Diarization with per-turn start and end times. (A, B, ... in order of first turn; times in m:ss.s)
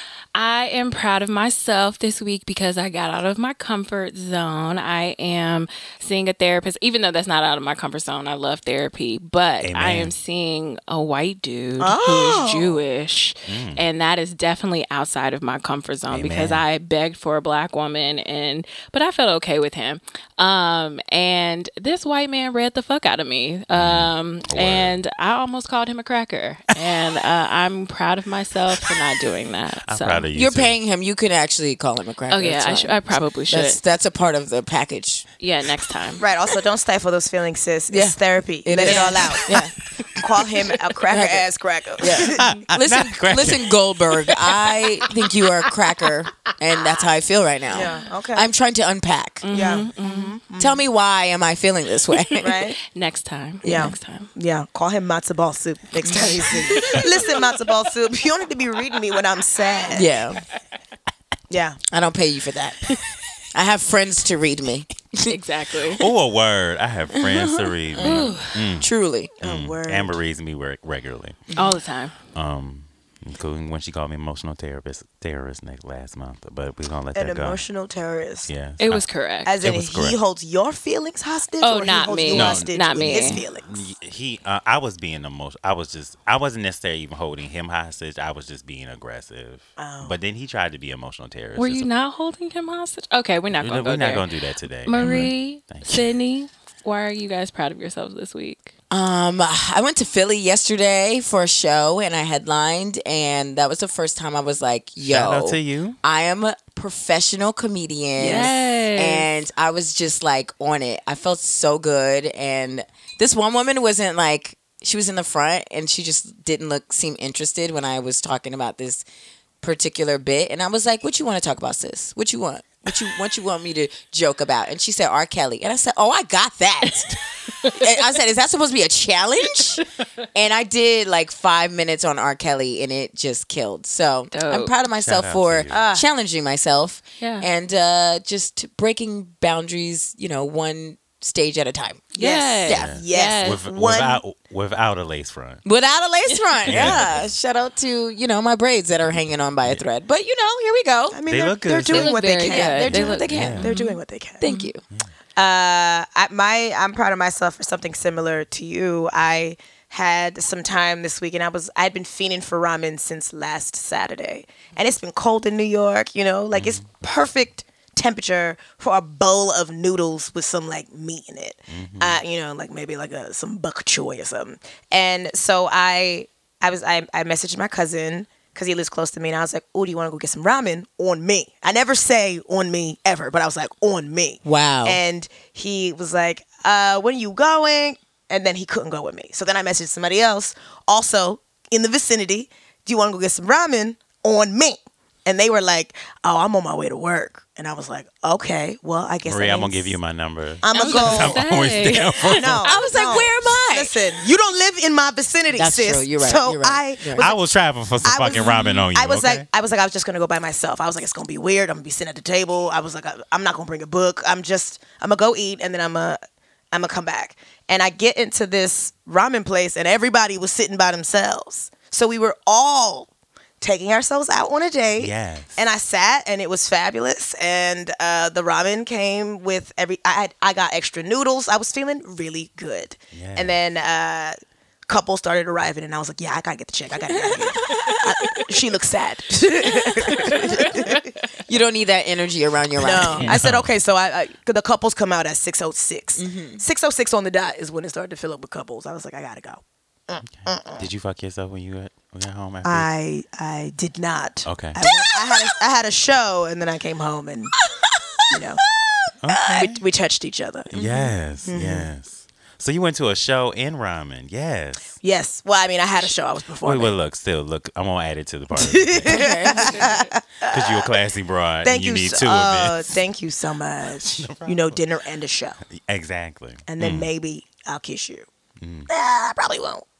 0:00.3-0:30.3 A
0:09.6-0:10.1 B
0:11.8-0:12.8 C
0:13.4-0:13.8 B
0:16.1-0:16.6 B
0:23.7-0:25.0 B
0:29.8-0:30.8 B
0:30.3-0:35.2 D
0:32.3-0:33.8 A
0:35.4-0:36.2 A
0:36.2-0:42.5 C
0:37.9-0:39.7 D
0:38.8-0:39.3 A
0:41.1-0:41.5 D
0:42.0-0:49.8 D
0:42.1-0:44.7 B
0:47.7-0:48.5 C
0:49.4-0:50.4 A
0:49.5-0:50.8 C
0:50.6-0:52.6 D
0:52.2-0:54.3 A
0:52.4-0:52.8 C
0:53.6-0:53.9 D
0:53.6-1:00.1 C
0:56.1-0:56.8 D
0:56.7-0:57.1 A
0:59.9-1:00.4 D
1:01.5-1:01.8 C
1:01.9-1:02.9 D
1:03.5-1:05.4 D
1:05.2-1:06.0 A
1:06.0-1:08.9 B
1:07.1-1:09.3 D
1:08.0-1:08.6 A
1:09.4-1:10.2 C
1:09.4-1:11.4 B
1:11.5-1:11.8 D
1:11.6-1:12.1 A
1:12.3-1:17.6 B
1:17.1-1:18.5 C
1:18.5-1:19.1 B
1:18.8-1:19.5 A
1:19.4-1:23.7 C
1:19.6-1:20.2 B
1:21.6-1:23.4 A
1:22.3-1:31.9 B
1:29.8-1:30.1 C
1:31.6-1:34.2 A
1:33.5-1:36.1 B
1:34.8-1:38.7 A
1:38.9-1:59.0 D
1:45.0-1:46.0 B
1:48.2-1:48.5 C
1:48.2-1:49.3 A
1:59.6-2:22.1 D
2:14.3-2:14.7 A
2:15.0-2:15.8 B
2:15.7-2:16.0 C
2:17.2-2:17.5 A
2:22.1-2:23.6 A
2:22.1-2:24.2 C
2:22.7-2:25.6 B
2:25.6-2:31.2 D
2:26.6-2:27.3 B
2:31.1-2:34.4 C
2:31.3-2:32.2 B
2:31.9-2:34.7 A
2:32.3-2:33.7 D
2:32.8-2:33.6 B
2:34.4-2:34.8 D
2:35.4-3:20.0 C
2:46.5-2:46.8 B
2:51.7-2:52.2 B
3:04.4-3:05.0 D
3:19.2-3:22.6 B
3:20.6-3:21.4 C
3:20.7-3:22.8 A
3:22.2-3:27.4 C
3:22.5-3:24.0 D
3:25.5-3:27.2 D
3:27.2-3:29.4 B
3:28.0-3:36.2 C
3:36.7-3:43.1 C
3:43.6-3:54.4 C
3:45.0-3:45.6 B
3:53.1-3:53.6 B
3:54.9-4:01.1 C
3:57.2-3:58.4 D
3:59.7-4:01.0 D
4:01.5-4:03.4 D
4:02.8-4:10.8 C
4:03.0-4:03.4 A
4:03.2-4:03.7 B
4:06.2-4:06.6 D
4:10.4-4:12.9 B
4:12.6-4:17.6 C
4:14.4-4:14.8 B
4:14.8-4:15.5 D
4:17.6-4:19.6 D
4:18.3-4:18.6 C
4:19.2-4:19.8 B
4:19.5-4:20.8 C
4:20.7-4:21.1 D
4:20.7-4:24.9 B
4:21.4-4:21.9 C
4:25.0-4:27.0 C
4:26.6-4:29.7 B
4:28.5-4:30.9 C
4:29.1-4:29.9 D
4:30.5-4:33.0 B
4:31.6-4:35.6 C
4:33.9-4:34.8 B
4:35.8-4:37.1 B
4:36.7-4:38.2 C
4:38.6-4:38.9 B
4:38.9-4:39.8 C